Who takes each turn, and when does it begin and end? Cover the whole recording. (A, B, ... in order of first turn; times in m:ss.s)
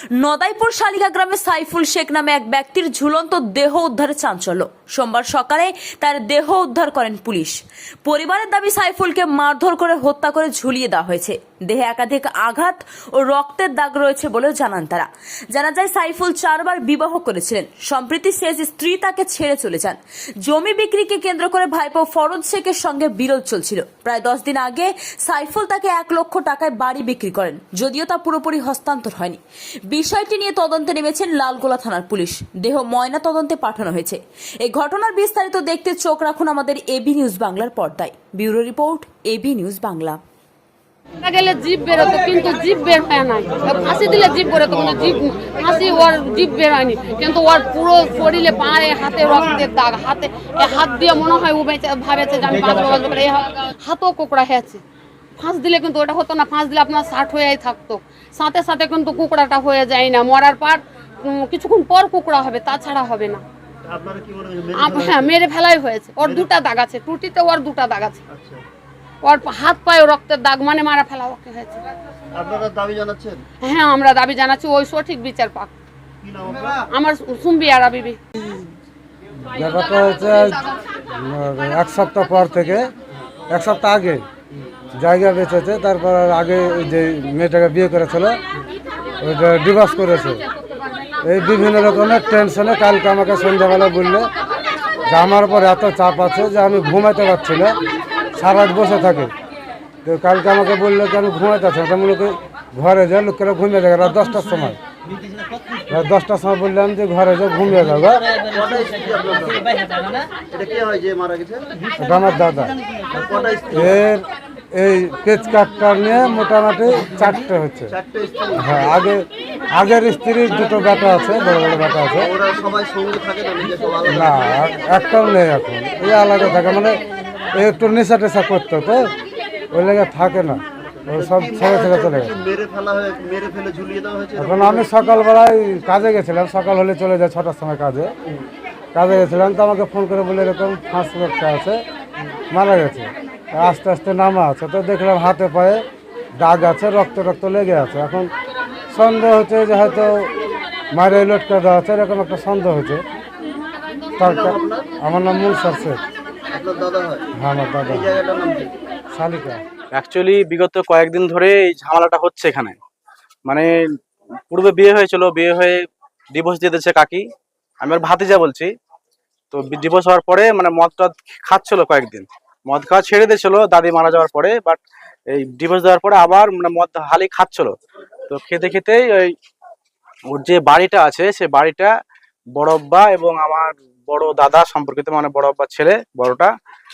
0:00.2-0:40.2 A
0:41.2-0:54.8 B
0:55.4-1:03.4 B
1:03.8-1:05.4 C
1:04.8-1:08.2 B
1:06.2-1:06.5 C
1:08.3-1:08.6 C
1:09.2-1:11.8 B
1:12.3-1:13.4 C
1:13.6-1:15.7 B
1:16.2-1:16.9 C
1:16.9-1:18.2 B
1:19.5-1:20.6 D
1:21.2-1:22.9 D
1:23.5-1:24.2 D
1:25.0-1:28.4 D
1:29.2-1:30.4 D
1:31.2-1:34.3 D
1:35.1-1:37.8 D
1:38.4-1:39.3 D
1:40.0-1:44.8 D
1:45.9-1:48.2 D
1:48.4-1:49.7 C
1:50.5-1:51.7 C
1:52.0-1:52.8 D
1:53.1-1:54.0 C
1:53.7-1:57.9 D
1:57.9-1:59.0 C
1:58.6-2:02.3 D
2:02.2-2:04.8 C
2:04.1-2:07.0 D
2:07.5-2:09.1 D
2:09.7-2:12.3 D
2:10.9-2:14.9 C
2:14.4-2:18.1 D
2:19.0-2:21.8 D
2:22.5-2:25.8 D
2:26.4-2:28.3 D
2:28.9-2:30.1 D
2:30.9-2:33.0 D
2:34.2-2:36.0 D
2:34.2-2:34.9 C
2:36.5-2:37.3 C
2:37.4-2:38.2 D
2:37.9-2:38.8 C
2:39.1-2:39.6 D
2:39.9-2:42.8 E
2:44.5-2:47.2 E
2:47.8-2:48.7 E
2:49.5-2:54.8 E
2:55.3-2:57.7 E
2:58.3-2:59.3 E
3:00.3-3:01.9 E
3:02.6-3:06.5 E